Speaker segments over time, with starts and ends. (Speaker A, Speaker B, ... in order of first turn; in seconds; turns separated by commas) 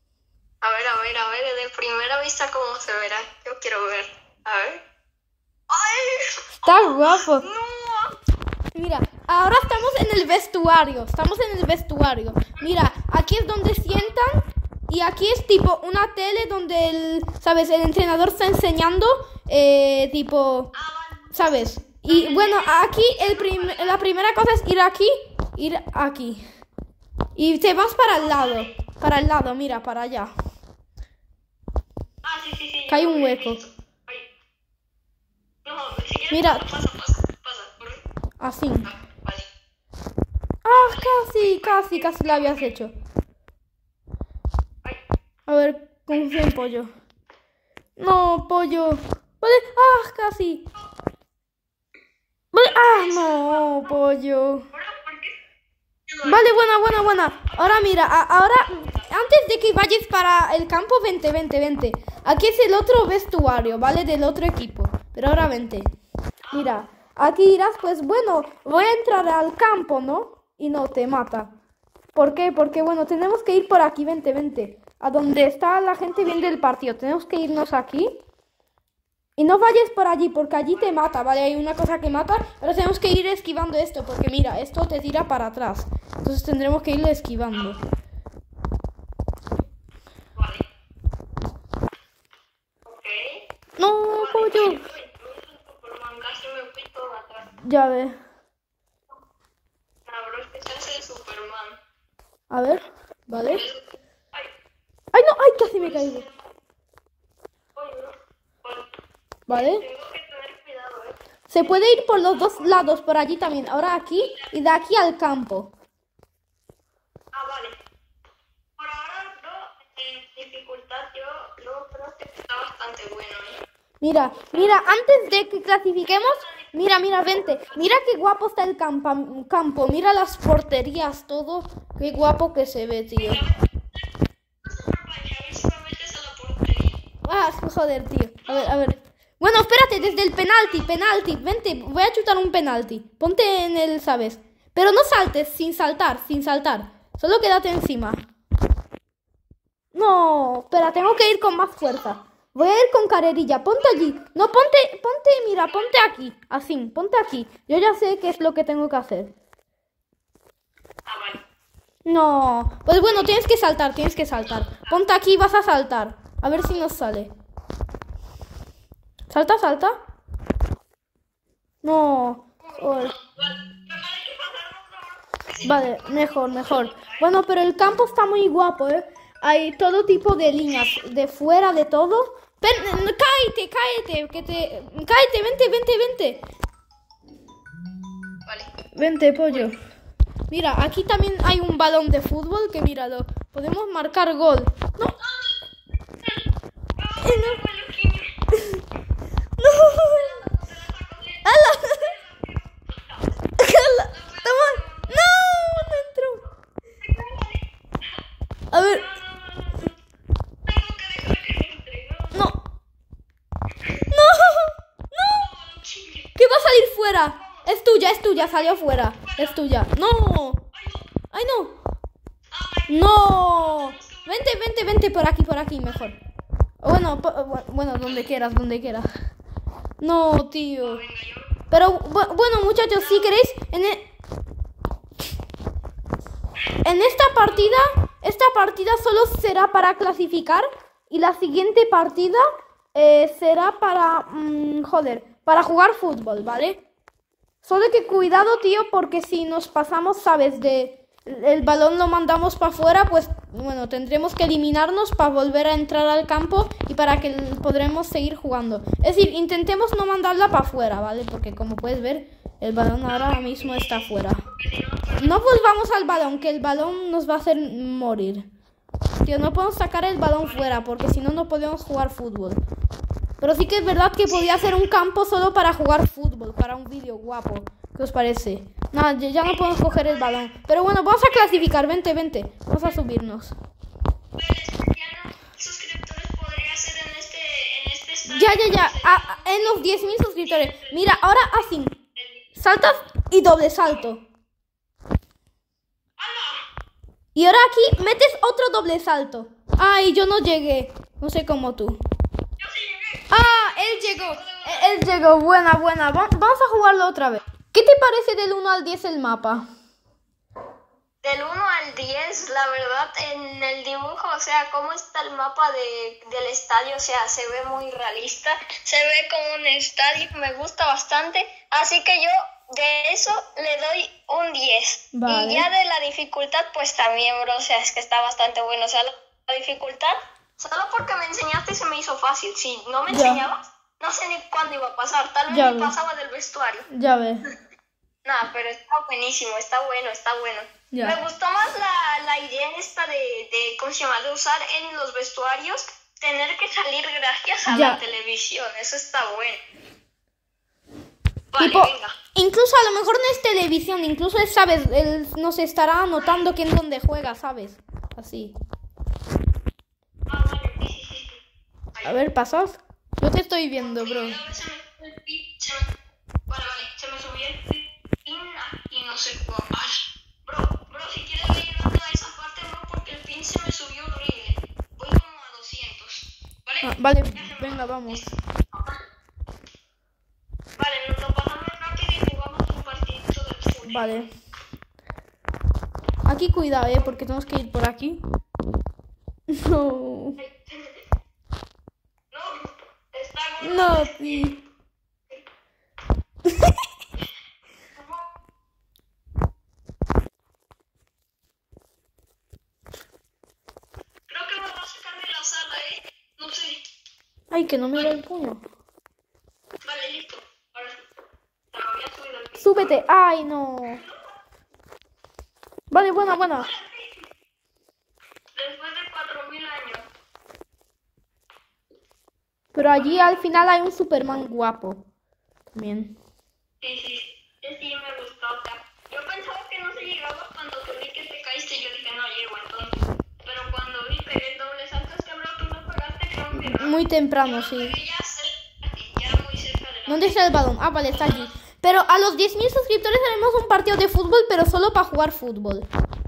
Speaker A: 0.6-4.8, Speaker A: 5.7-8.2, Speaker B: 6.6-7.5, Speaker B: 8.7-20.7, Speaker A: 20.7-21.5, Speaker B: 21.3-26.4, Speaker A: 22.0-24.1, Speaker B: 27.4-30.3, Speaker A: 28.1-28.8, Speaker A: 32.2-34.3, Speaker B: 32.9-33.6, Speaker A: 35.6-38.0, Speaker B: 36.3-36.7, Speaker B: 38.4-38.9, Speaker A: 38.8-39.5, Speaker B: 40.6-42.9, Speaker A: 40.7-42.7, Speaker B: 45.5-46.9, Speaker A: 46.1-46.5, Speaker B: 48.0-50.7, Speaker B: 52.5-54.6, Speaker A: 52.6-53.9, Speaker A: 54.7-55.3, Speaker A: 56.1-56.9, Speaker B: 56.2-65.9, Speaker A: 57.4-59.3, Speaker A: 66.4-66.8, Speaker B: 66.5-71.5, Speaker B: 72.2-78.2, Speaker A: 76.1-76.6, Speaker B: 79.4-87.8, Speaker A: 80.7-81.0, Speaker A: 87.5-87.9, Speaker A: 90.4-90.7, Speaker A: 92.9-93.5, Speaker B: 93.8-94.8, Speaker A: 94.1-97.5, Speaker B: 97.6-98.2, Speaker A: 100.1-101.8, Speaker B: 102.5-103.6, Speaker A: 103.5-104.5, Speaker B: 105.1-106.2, Speaker A: 105.8-106.3, Speaker A: 107.8-108.9, Speaker B: 109.5-109.8, Speaker A: 109.5-112.9, Speaker B: 111.5-115.7, Speaker A: 114.2-114.5, Speaker A: 117.3-117.8, Speaker A: 118.8-123.6, Speaker B: 124.0-133.4, Speaker A: 126.1-126.7, Speaker A: 127.7-128.0, Speaker A: 133.2-134.0, Speaker A: 134.6-137.0, Speaker B: 137.2-148.3, Speaker A: 140.0-141.0, Speaker B: 149.9-159.3, Speaker A: 153.8-154.2, Speaker A: 155.7-155.9, Speaker A: 161.1-161.4, Speaker B: 162.1-167.3, Speaker A: 163.0-163.4, Speaker A: 164.4-165.0, Speaker A: 166.5-166.9, Speaker B: 169.3-170.0, Speaker B: 171.8-173.1, Speaker A: 172.6-177.3, Speaker B: 175.6-186.4, Speaker A: 180.6-181.1, Speaker A: 182.7-183.1, Speaker B: 188.9-189.8, Speaker A: 189.5-189.7, Speaker B: 190.5-195.2, Speaker A: 195.2-195.6, Speaker A: 197.0-198.3, Speaker B: 197.2-197.6, Speaker B: 198.5-198.8, Speaker B: 199.6-200.3, Speaker A: 200.0-203.3, Speaker B: 201.4-202.1, Speaker B: 203.6-206.4, Speaker A: 204.1-205.2, Speaker A: 207.0-208.2, Speaker B: 208.7-209.1, Speaker A: 208.8-210.0, Speaker A: 210.7-212.4, Speaker B: 212.3-212.6, Speaker B: 214.1-214.7, Speaker A: 215.1-216.3, Speaker B: 216.4-220.6, Speaker A: 217.3-217.7, Speaker A: 218.3-219.6, Speaker A: 220.7-221.1, Speaker B: 221.3-221.8, Speaker A: 222.5-224.6, Speaker B: 222.9-226.2, Speaker A: 225.8-226.2, Speaker B: 226.8-229.1, Speaker B: 230.0-231.0, Speaker A: 230.8-231.6, Speaker B: 231.7-234.1, Speaker A: 232.9-233.3, Speaker B: 236.8-242.4, Speaker A: 237.0-237.8, Speaker B: 242.9-246.8, Speaker B: 247.6-264.4, Speaker A: 263.1-266.0, Speaker B: 265.2-268.5, Speaker B: 269.2-272.6, Speaker A: 270.4-270.7, Speaker B: 273.4-283.6, Speaker A: 274.2-274.9, Speaker A: 279.4-280.5, Speaker A: 281.2-281.7, Speaker A: 284.4-292.5, Speaker B: 288.3-292.0, Speaker B: 292.6-294.2, Speaker A: 296.2-296.7, Speaker B: 297.4-302.0, Speaker A: 302.6-305.1, Speaker B: 303.3-309.6, Speaker A: 311.2-336.9, Speaker B: 325.1-325.7, Speaker B: 333.1-333.4, Speaker B: 335.5-335.9, Speaker B: 336.9-337.4, Speaker A: 338.2-349.6, Speaker B: 340.9-341.2, Speaker B: 347.7-348.0, Speaker A: 351.5-352.1, Speaker B: 351.6-358.6, Speaker A: 356.2-356.4, Speaker A: 360.3-361.4, Speaker B: 362.1-364.4, Speaker A: 363.8-365.9, Speaker A: 366.5-379.0, Speaker B: 376.8-378.3, Speaker A: 380.8-384.3, Speaker B: 383.9-384.3, Speaker B: 386.3-388.2, Speaker B: 389.5-390.4, Speaker A: 390.4-391.0, Speaker A: 392.3-394.6, Speaker B: 393.6-394.6, Speaker B: 396.5-396.7, Speaker A: 397.9-398.2, Speaker A: 404.3-406.8, Speaker B: 407.5-408.6, Speaker A: 409.8-411.0, Speaker A: 411.7-413.0, Speaker B: 412.6-414.0, Speaker A: 413.9-414.3, Speaker B: 415.9-416.7, Speaker A: 416.6-417.2, Speaker A: 418.6-420.1, Speaker B: 422.8-425.1, Speaker A: 423.0-423.4, Speaker B: 425.7-426.2, Speaker A: 426.8-440.4, Speaker B: 436.6-438.0, Speaker B: 440.1-445.9, Speaker A: 441.1-441.6